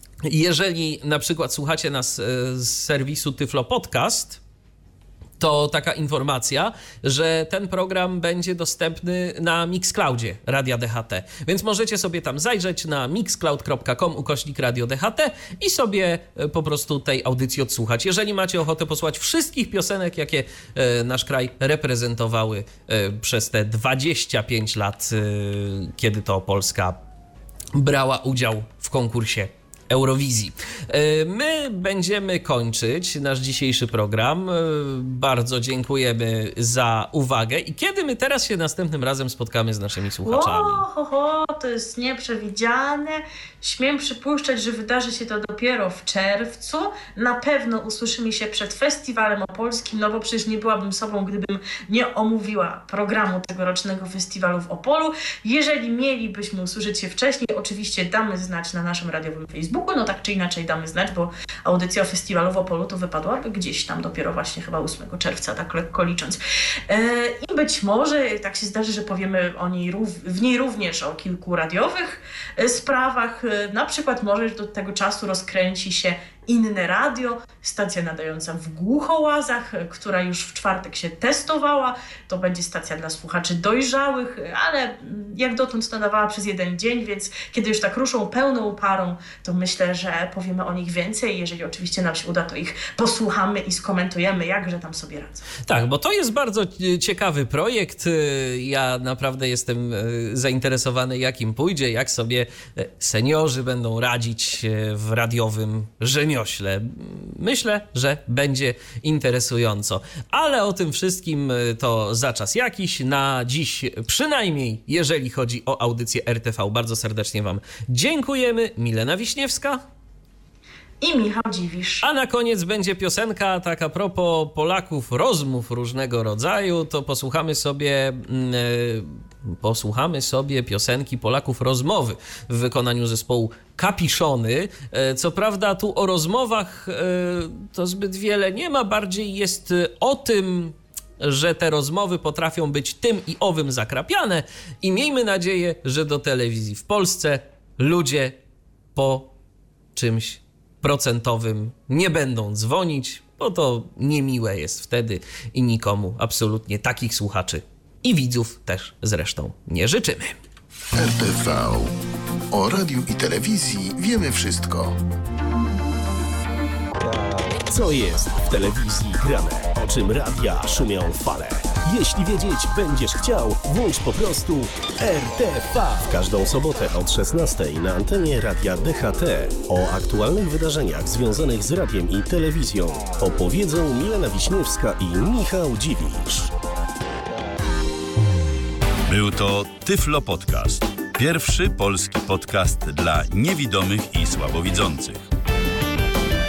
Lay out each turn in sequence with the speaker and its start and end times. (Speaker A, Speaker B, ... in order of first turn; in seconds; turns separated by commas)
Speaker A: 0.2-4.4, Speaker A: 5.4-27.0, Speaker A: 27.7-40.8, Speaker B: 40.2-95.5, Speaker A: 95.7-119.8, Speaker B: 121.0-122.1, Speaker A: 122.0-148.4, Speaker A: 148.9-149.3, Speaker A: 149.9-160.4, Speaker C: 161.0-161.9, Speaker C: 162.5-165.0, Speaker D: 167.0-186.5, Speaker E: 189.1-195.2